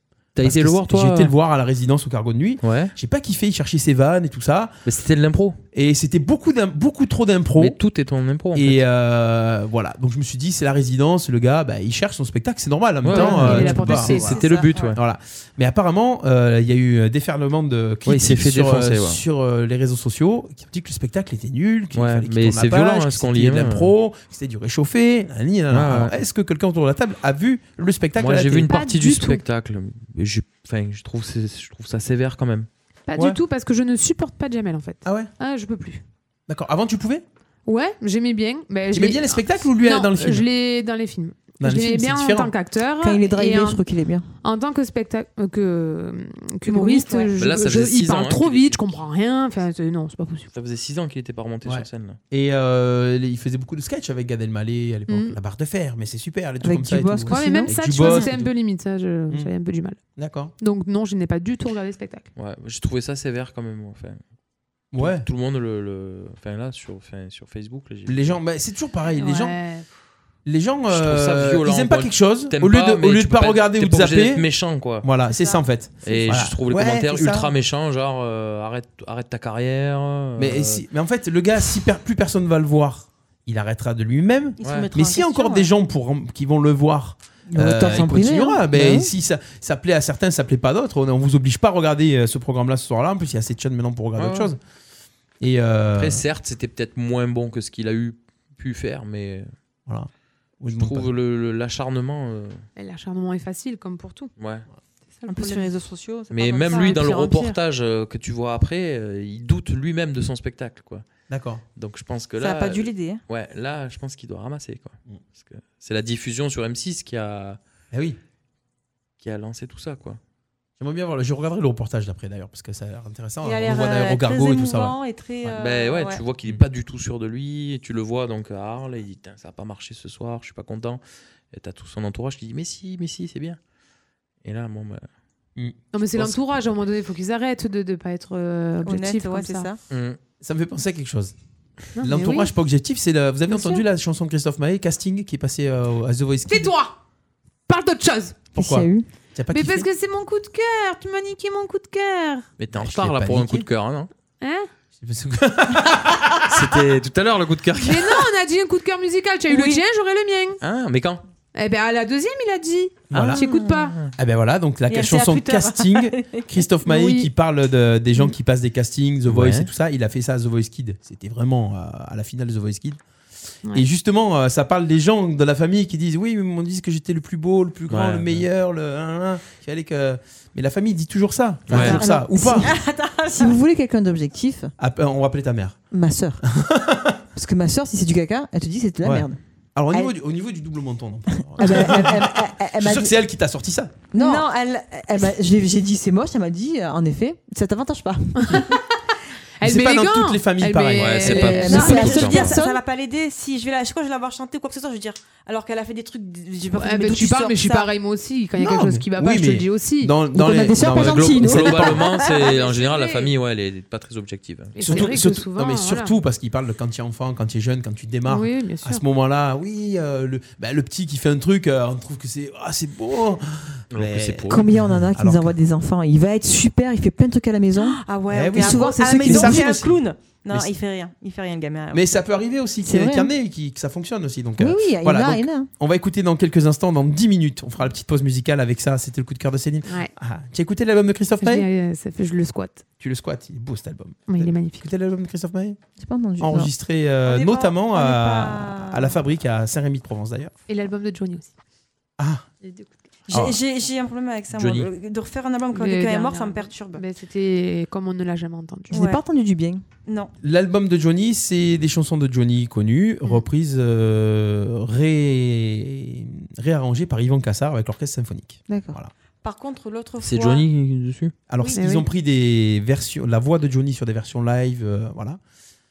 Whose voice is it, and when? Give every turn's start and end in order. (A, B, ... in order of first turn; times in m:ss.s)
0:00.4-0:01.3 A
0:00.4-0:04.7 B
0:02.6-0:02.9 A
0:04.8-0:05.6 A
0:05.7-0:07.8 B
0:07.6-0:08.8 A
0:08.5-0:14.4 B
0:13.0-0:15.0 A
0:13.1-0:14.7 C
0:14.1-0:15.0 D
0:14.9-0:28.7 B
0:18.0-0:19.2 A
0:21.9-0:23.9 A
0:25.7-0:26.2 A
0:28.2-0:32.7 A
0:28.7-0:29.4 C
0:33.1-0:36.0 C
0:35.0-0:35.3 B
0:36.5-0:37.2 B
0:37.7-0:43.8 C
0:38.9-0:40.5 B
0:41.6-0:42.5 B
0:43.0-0:44.3 E
0:44.4-0:50.5 C
0:46.7-0:47.3 E
0:47.4-0:49.0 A
0:50.5-0:52.2 A
0:51.6-0:58.6 B
0:55.1-0:55.4 C
0:56.6-0:58.2 E
0:57.3-1:00.0 C
1:00.2-1:00.5 B
1:00.6-1:02.3 C
1:02.4-1:04.2 A
1:04.9-1:05.3 B
1:05.0-1:08.4 A
1:08.1-1:09.6 B
1:09.1-1:09.9 C
1:10.4-1:14.4 B
1:10.9-1:15.1 A
1:15.0-1:17.5 B
1:16.0-1:20.8 A
1:20.4-1:34.6 B
1:24.6-1:25.7 D
1:24.6-1:24.9 A
1:27.5-1:29.1 E
1:34.2-1:34.5 A
1:35.4-1:36.2 B
1:36.0-1:39.5 A
1:40.6-1:41.1 B
1:40.7-1:42.6 A
1:42.8-1:44.3 C
1:44.4-1:44.7 A
1:45.2-1:45.7 C
1:45.3-1:47.6 D
1:46.3-1:51.1 A
1:51.3-1:51.6 B
1:51.8-1:57.6 A
1:52.4-1:53.2 D
1:57.9-1:58.2 B
1:59.2-2:00.2 A
2:00.8-2:05.0 B
2:03.4-2:06.2 D
2:05.6-2:11.0 A
2:11.5-2:13.6 A
2:14.4-2:15.1 A
2:15.6-2:16.4 B
2:15.9-2:19.7 C
2:18.8-2:19.8 D
2:19.9-2:20.2 A
2:20.4-2:21.3 B
2:22.0-2:22.5 C
2:22.0-2:26.7 B
2:23.5-2:23.8 C
2:26.5-2:27.0 C
2:27.7-2:28.5 C
2:28.5-2:29.9 B
2:28.6-2:29.1 E
2:29.5-2:32.5 C
2:32.6-2:34.1 A
2:32.8-2:33.7 B
2:34.4-2:34.7 C
2:35.0-2:36.6 B
2:36.5-2:38.2 A
2:37.8-2:40.6 C
2:39.5-2:39.8 D
2:40.6-2:41.2 A
2:41.6-2:44.0 C
2:43.1-2:43.4 B
2:43.8-2:44.1 A
2:44.2-2:53.0 B
2:44.9-2:46.6 D
2:46.9-2:47.3 C
2:49.3-2:49.7 A
2:53.7-3:02.7 B
2:57.9-2:58.5 A
3:01.7-3:02.0 A
3:01.7-3:02.7 E
3:02.6-3:03.6 D
3:03.3-3:04.7 E
3:04.8-3:05.8 B
3:05.9-3:06.4 E
3:06.5-3:07.2 B
3:07.4-3:09.4 E
3:09.0-3:14.0 B
3:11.6-3:13.2 E
3:14.1-3:14.5 E
3:14.2-3:15.3 D
3:15.1-3:18.8 E
3:18.5-3:18.8 C
3:19.6-3:22.3 C
3:19.6-3:21.6 B
3:21.0-3:22.6 A
3:21.4-3:22.8 E
3:21.6-3:27.9 D
3:26.7-3:30.2 C
3:28.6-3:32.0 B
3:30.3-3:32.1 E
3:30.8-3:35.0 A
3:32.2-3:33.3 C
3:34.7-3:36.2 C
3:34.8-3:45.5 B
3:38.2-3:39.0 C
3:43.9-3:44.6 A
3:44.5-3:49.8 E
3:47.8-3:52.2 D
3:48.3-3:50.0 B
3:51.9-4:01.7 B
3:52.8-3:53.3 E
3:54.6-3:55.7 E
3:59.9-4:00.1 C
4:01.4-4:02.8 C
4:03.0-4:05.8 B
4:04.3-4:04.9 C
4:06.0-4:06.7 E
4:06.4-4:10.5 B
4:07.2-4:09.2 D
4:10.7-4:11.5 C
4:12.2-4:12.5 B
4:12.6-4:12.9 C
4:13.3-4:17.0 D
4:13.3-4:13.6 B
4:14.5-4:14.9 A
4:15.7-4:19.0 C
4:18.9-4:19.8 E
4:18.9-4:19.2 D
4:20.1-4:20.3 D
4:20.4-4:29.1 B
4:28.7-4:29.0 E
4:29.4-4:30.6 D
4:30.2-4:31.3 A
4:31.5-4:35.4 B
4:31.8-4:32.1 C